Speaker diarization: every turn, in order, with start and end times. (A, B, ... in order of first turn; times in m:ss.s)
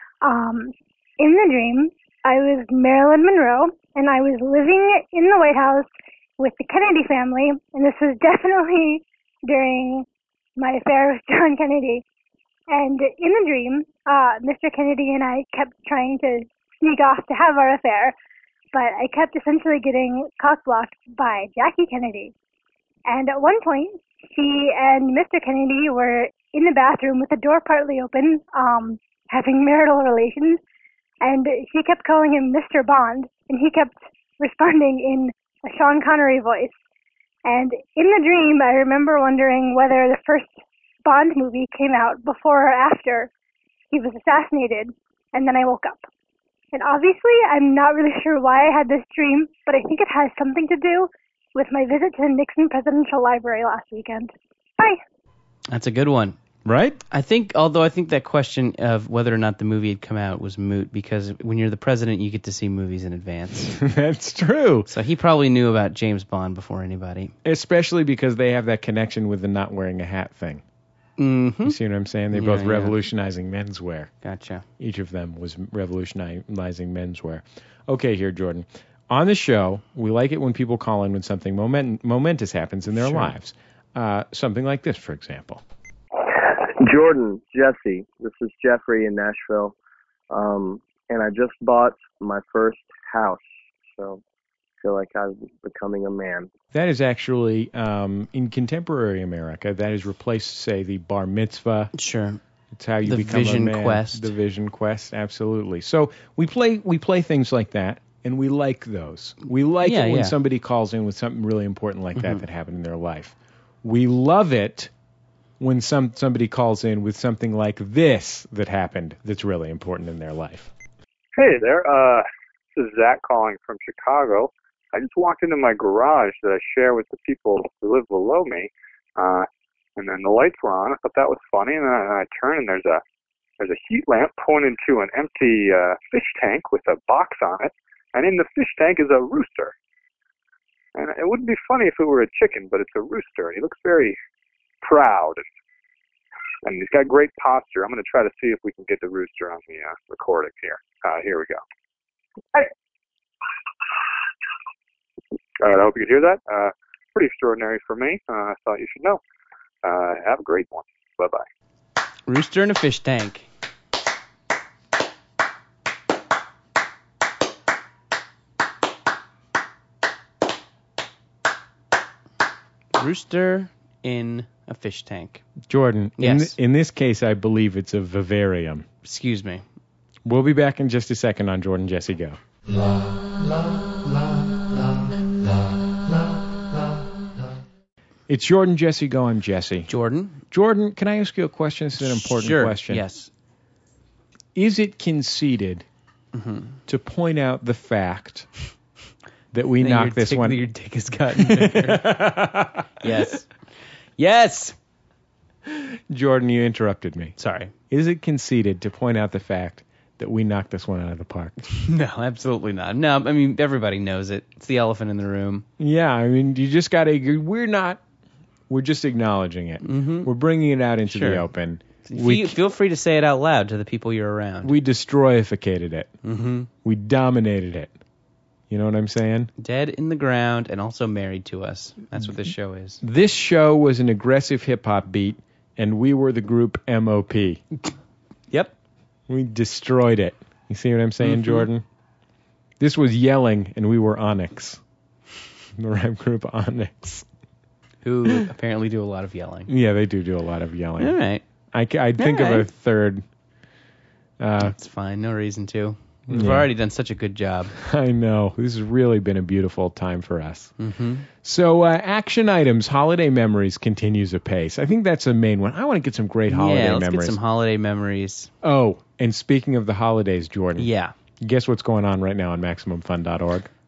0:00.2-0:12.0 A
0:12.7-0:18.2 A
0:18.7-0:22.3 A
0:23.1-0:30.6 A
0:31.2-0:36.8 A
0:37.4-0:43.3 A
0:43.9-0:46.1 A
0:46.7-0:55.0 A
0:55.7-0:56.4 B
0:56.6-0:57.0 C
0:57.1-1:03.8 B
1:03.8-1:04.9 C
1:04.9-1:07.3 B
1:07.4-1:10.6 C
1:11.2-1:11.8 B
1:11.6-1:14.1 C
1:12.3-1:13.0 B
1:14.2-1:14.6 B
1:14.8-1:25.6 C
1:23.0-1:23.3 B
1:26.3-1:29.8 D
1:30.3-1:34.2 D
1:34.8-1:36.5 D
1:36.7-1:41.9 C
1:41.9-1:42.4 B
1:42.7-1:54.9 C
1:43.1-1:44.3 B
1:49.8-1:50.4 B
1:52.2-1:52.4 B
1:55.6-2:00.7 C
2:01.4-2:02.2 E
2:02.8-2:13.0 E
2:13.6-2:19.7 E
2:21.0-2:24.2 E
2:24.8-2:25.4 E
2:26.6-2:31.6 E
2:35.6-2:39.2 E
2:39.8-2:41.4 E
2:42.3-2:43.5 B
2:53.0-2:55.4 B
2:55.7-2:58.9 C
2:56.2-2:56.6 B
2:59.0-2:59.6 B
3:00.2-3:02.4 C
3:08.3-3:09.9 C
3:09.9-3:10.4 B
3:10.5-3:13.0 C
3:12.1-3:13.3 B
3:14.6-3:15.8 C
3:16.3-3:16.8 B
3:16.9-3:18.5 C
3:19.5-3:20.6 C
3:19.8-3:22.1 B
3:21.3-3:23.1 C
3:23.0-3:23.5 B
3:24.2-3:24.8 B
3:25.7-3:27.4 C
3:27.4-3:27.7 B
3:27.9-3:31.6 C
3:31.7-3:35.7 B
3:35.8-3:38.0 C
3:38.7-3:42.6 C
3:39.8-3:40.3 B
3:41.1-3:41.4 B
3:42.1-3:44.7 B
3:44.6-3:46.1 C
3:46.2-3:46.7 B
3:46.8-3:47.9 C
3:48.7-3:49.5 C
3:49.6-3:53.0 B
3:53.0-3:57.6 C
3:59.3-4:01.8 C
4:01.2-4:01.7 B
4:02.8-4:04.8 C
4:05.8-4:07.3 C
4:08.0-4:09.7 B
4:09.7-4:11.2 C
4:11.0-4:11.4 B
4:11.7-4:13.2 C
4:12.2-4:12.7 B
4:14.4-4:14.8 C
4:14.6-4:17.7 B
4:16.3-4:16.7 C
4:17.8-4:20.7 C
4:20.8-4:21.3 B
4:21.4-4:27.4 C
4:26.5-4:28.5 B
4:28.6-4:30.9 C
4:30.8-4:31.1 B
4:31.4-4:33.7 C